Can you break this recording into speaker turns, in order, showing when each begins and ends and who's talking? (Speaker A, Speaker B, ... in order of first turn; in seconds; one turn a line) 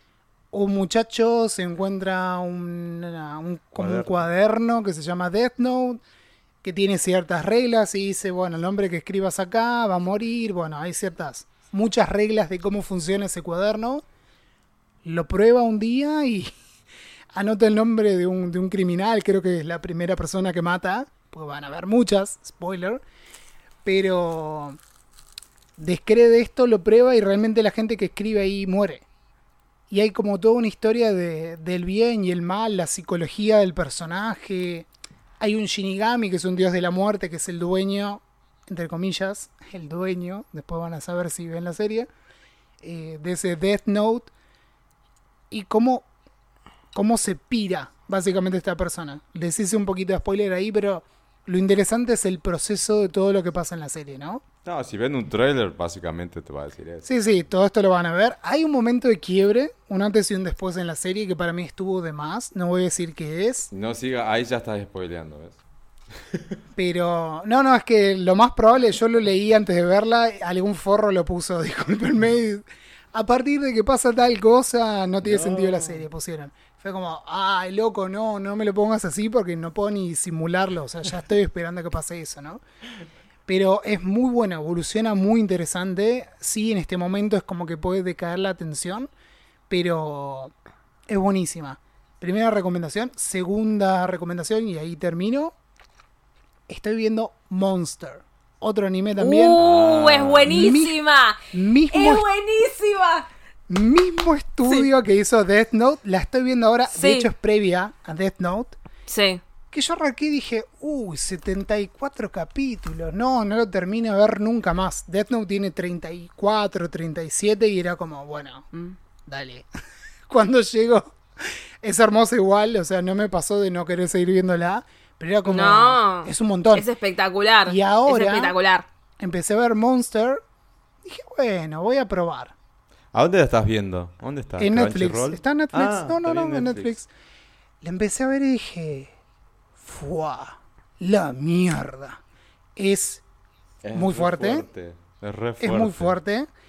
Speaker A: 0.5-6.0
Speaker B: 3.8-4.2
Speaker A: 6.6-14.0
Speaker A: 15.0-16.5
Speaker A: 17.3-23.0
Speaker A: 23.8-24.8
Speaker A: 25.8-29.0
Speaker A: 29.9-34.9
Speaker A: 35.4-42.1
Speaker A: 42.8-44.3
Speaker A: 45.5-46.1
Speaker A: 46.9-54.4
Speaker B: 54.6-57.1
Speaker A: 57.0-63.7
Speaker B: 63.7-65.6
Speaker B: 66.3-66.6
Speaker A: 66.8-82.6
Speaker B: 75.2-76.0
Speaker A: 83.5-89.1
Speaker A: 89.7-90.5
Speaker A: 91.1-95.5
Speaker A: 96.7-99.6
Speaker C: 99.2-103.3
Speaker B: 99.6-100.7
Speaker A: 100.5-101.0
Speaker A: 101.5-102.2
Speaker A: 103.7-108.8
Speaker C: 106.9-107.3
Speaker C: 109.1-109.4
Speaker A: 109.7-118.7
Speaker A: 119.2-119.7
Speaker A: 120.3-126.9
Speaker C: 125.5-128.9
Speaker A: 127.7-128.6
Speaker A: 129.2-130.4
Speaker A: 131.0-132.5
Speaker B: 133.1-136.9
Speaker A: 134.6-137.1
Speaker A: 137.8-139.1
Speaker A: 139.8-142.2
Speaker A: 142.8-143.2
Speaker B: 143.8-146.2
Speaker A: 143.9-144.7
Speaker A: 145.6-146.5